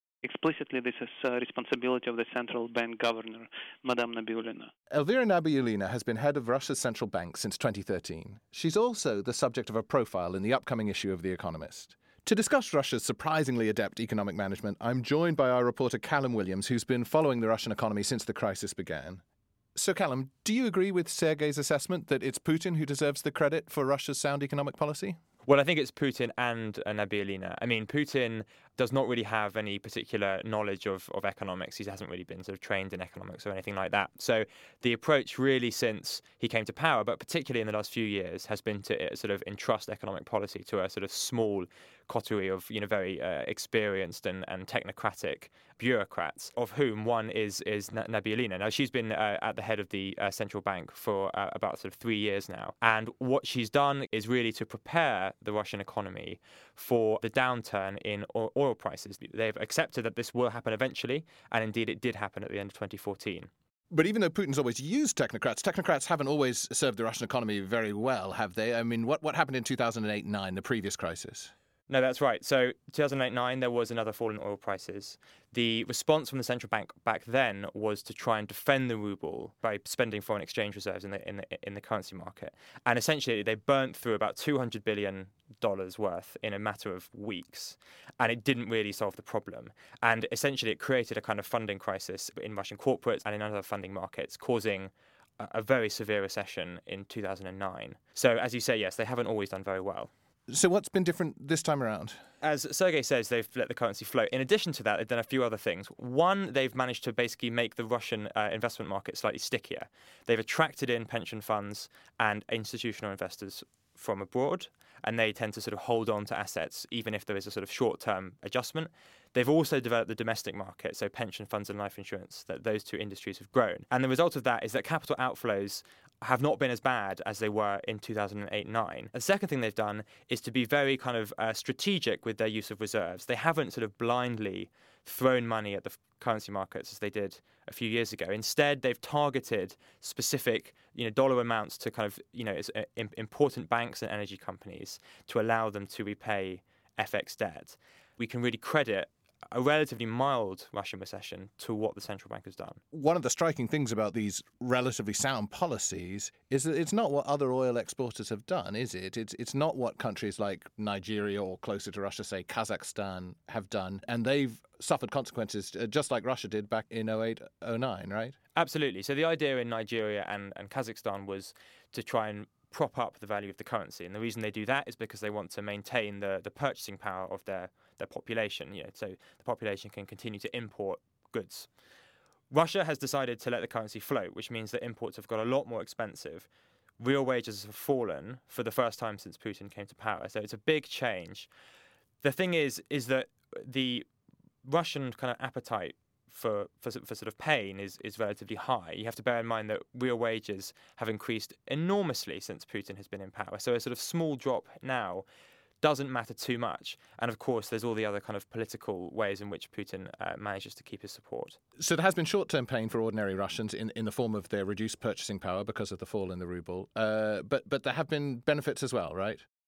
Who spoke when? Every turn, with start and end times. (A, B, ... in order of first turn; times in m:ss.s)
0:00.2-0:04.7 A
0:04.9-0:19.2 B
0:19.8-0:25.2 B
0:25.4-1:03.5 C
1:03.9-1:11.5 B
1:11.9-1:40.1 C
1:40.5-1:42.2 B
1:42.4-2:32.8 C
2:32.9-2:48.4 B
2:48.6-3:01.7 C
3:02.5-3:06.5 C
3:07.0-3:11.5 C
3:12.2-3:14.0 C
3:14.6-3:25.2 C
3:25.8-3:31.6 C
3:31.8-3:39.4 B